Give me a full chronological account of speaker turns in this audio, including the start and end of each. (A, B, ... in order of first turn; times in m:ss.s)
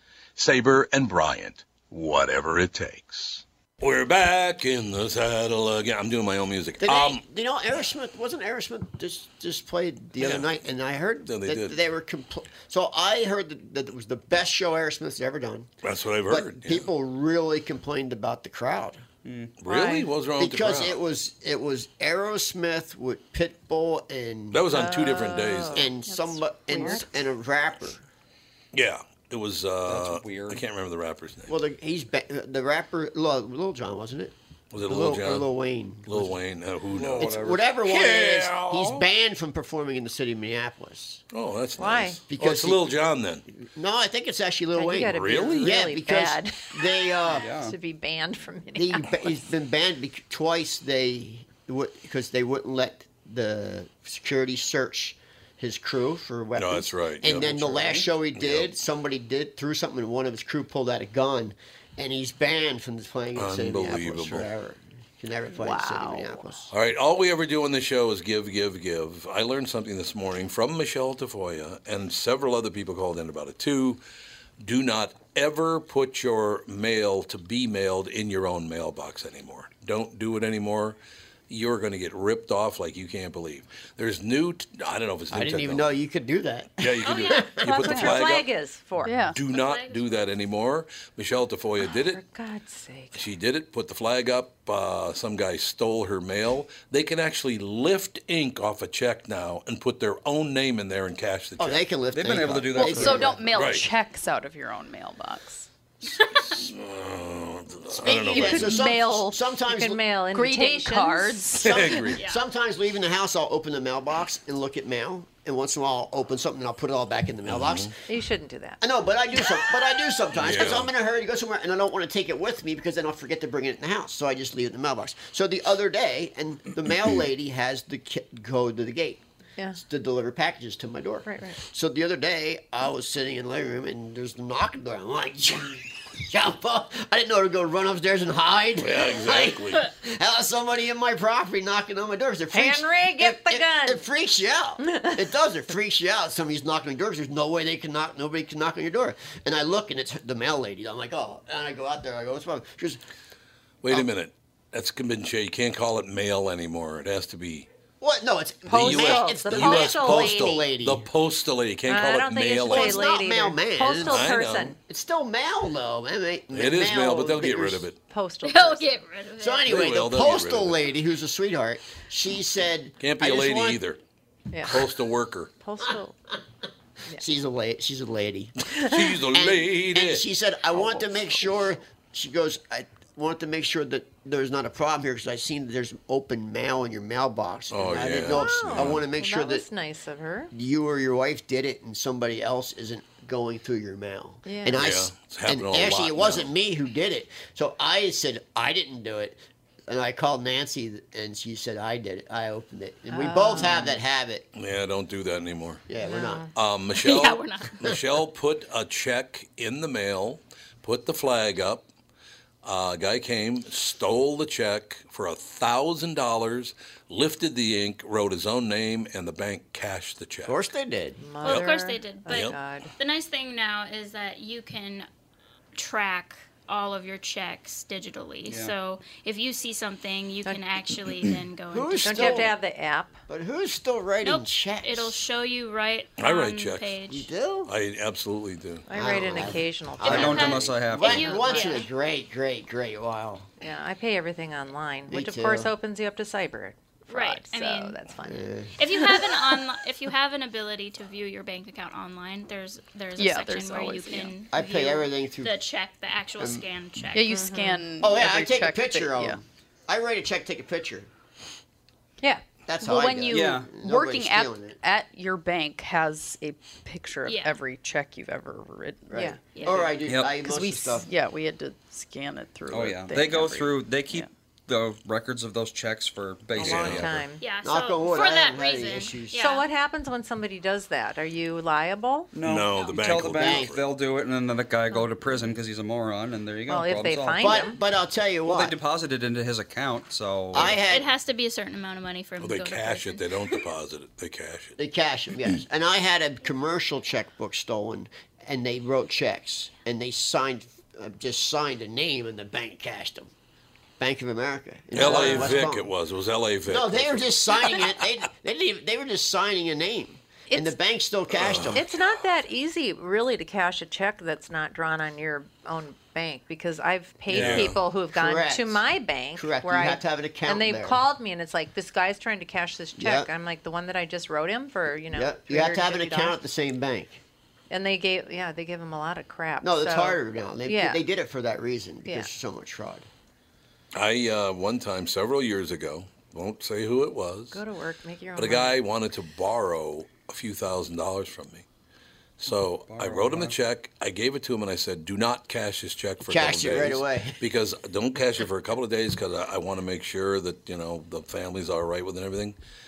0:00.4-0:07.2 A
0:06.8-0:15.7 B
0:10.2-0:10.5 A
0:11.3-0:11.8 A
0:15.8-0:16.9 A
0:16.3-0:19.0 B
0:19.2-0:19.5 C
0:19.6-0:21.0 A
0:19.7-0:20.0 D
0:20.4-0:24.7 B
0:24.5-0:25.9 A
0:24.7-0:25.9 D
0:25.7-0:28.0 B
0:26.1-0:27.0 E
0:26.7-0:27.1 D
0:28.7-0:31.5 A
0:29.8-0:30.6 C
0:31.5-0:36.4 B
0:34.7-0:35.5 A
0:36.0-0:39.1 A
0:37.0-0:37.6 C
0:37.2-0:41.2 B
0:41.3-0:43.4 A
0:41.8-0:42.2 D
0:42.3-0:42.9 B
0:43.5-0:47.5 B
0:44.8-0:49.4 D
0:45.1-0:45.7 A
0:47.3-0:47.8 C
0:48.8-1:06.7 B
0:56.6-0:57.8 A
0:58.4-0:58.7 A
1:03.4-1:04.5 A
1:05.5-1:06.4 E
1:06.7-1:14.0 A
1:14.6-1:21.0 A
1:21.5-1:25.9 A
1:25.3-1:27.9 B
1:26.8-1:28.5 A
1:27.0-1:27.5 F
1:27.6-1:29.2 D
1:29.0-1:29.4 E
1:29.1-1:32.2 A
1:29.5-1:30.2 F
1:31.8-1:33.3 D
1:33.1-1:41.8 A
1:41.6-1:43.4 B
1:42.1-1:43.5 C
1:42.8-1:45.7 E
1:43.5-1:43.9 A
1:46.2-1:46.5 F
1:46.4-1:48.8 A
1:47.9-1:50.0 B
1:48.4-1:49.3 E
1:48.4-1:51.6 D
1:50.3-1:52.0 E
1:51.6-1:52.2 A
1:51.6-1:58.0 B
1:52.2-1:52.4 F
1:57.5-1:57.9 A
1:58.1-1:58.8 D
1:58.8-2:09.2 B
2:00.3-2:00.9 A
2:09.8-2:33.0 B
2:11.2-2:11.6 D
2:18.8-2:19.8 A
2:22.5-2:24.1 D
2:24.8-2:25.2 D
2:33.8-2:37.7 A
2:38.0-2:41.1 B
2:38.7-2:40.6 D
2:38.7-2:43.1 A
2:41.9-2:44.8 D
2:42.6-2:44.2 B
2:44.0-2:44.8 A
2:44.9-2:47.8 B
2:46.5-2:48.0 A
2:48.1-2:49.0 D
2:48.4-2:49.7 F
2:49.4-2:53.8 B
2:49.7-2:50.8 A
2:53.0-2:54.0 A
2:54.7-2:55.5 A
2:55.6-2:56.2 D
2:57.2-2:58.7 B
2:58.7-3:00.3 A
2:59.2-3:09.7 B
3:07.7-3:09.0 A
3:08.3-3:10.5 D
3:10.5-3:24.5 B
3:14.5-3:14.8 D
3:14.8-3:16.5 A
3:23.1-3:24.0 D
3:24.6-3:25.8 A
3:25.9-3:26.5 B
3:26.0-3:26.5 D
3:26.6-3:31.9 A
3:26.9-3:27.9 F
3:32.6-3:40.6 A
3:40.4-3:41.2 B
3:41.2-3:42.9 D
3:41.4-3:45.1 F
3:42.3-3:42.6 A
3:45.8-3:52.5 F
3:48.5-3:48.8 C
3:51.7-3:52.5 B
3:52.0-3:53.2 D
3:53.3-3:55.2 B
3:54.2-3:57.3 F
3:56.2-3:57.0 A
3:57.1-3:57.7 B
3:57.7-3:58.9 A
3:58.9-4:01.8 D
3:58.9-4:03.5 B
4:00.0-4:01.5 C
4:00.1-4:01.9 F
4:03.6-4:08.5 D
4:05.1-4:05.7 B
4:07.1-4:08.0 F
4:08.2-4:08.8 B
4:08.8-4:17.4 F
4:09.0-4:09.3 D
4:13.2-4:14.4 E
4:14.5-4:15.6 B
4:16.4-4:16.6 B
4:17.1-4:19.4 E
4:17.3-4:17.8 D
4:18.0-4:21.1 B
4:22.7-4:24.8 B
4:22.8-4:29.2 E
4:23.3-4:23.7 C
4:27.3-4:27.6 F
4:29.1-4:31.1 B
4:29.1-4:29.4 D
4:29.6-4:30.0 F
4:30.1-4:30.3 C
4:30.2-4:34.3 E
4:30.5-4:31.0 D
4:32.7-4:37.2 C
4:36.6-4:37.1 A
4:36.6-4:37.4 D
4:37.4-4:39.7 F
4:37.6-4:39.4 B
4:39.4-4:42.3 D
4:42.3-4:47.6 C
4:42.4-4:43.8 A
4:43.3-4:43.7 B
4:46.7-4:47.8 D
4:47.4-4:48.8 B
4:48.5-4:50.8 C
4:50.5-4:51.1 B
4:50.9-4:53.6 F
4:52.4-4:54.8 A
4:54.8-5:03.3 B
5:04.0-5:05.9 B
5:04.9-5:07.8 A
5:05.0-5:05.6 D
5:06.7-5:11.9 B
5:10.5-5:10.8 D
5:11.3-5:11.8 A
5:11.7-5:26.4 D
5:17.3-5:17.8 A
5:17.4-5:18.8 B
5:19.4-5:21.0 B
5:23.0-5:23.3 B
5:25.1-5:27.2 B
5:27.7-5:31.0 D
5:29.6-5:33.1 B
5:33.9-5:37.6 A
5:37.5-5:38.8 D
5:38.4-5:41.6 A
5:42.4-5:52.6 A
5:42.9-5:43.6 C
5:46.2-5:47.4 B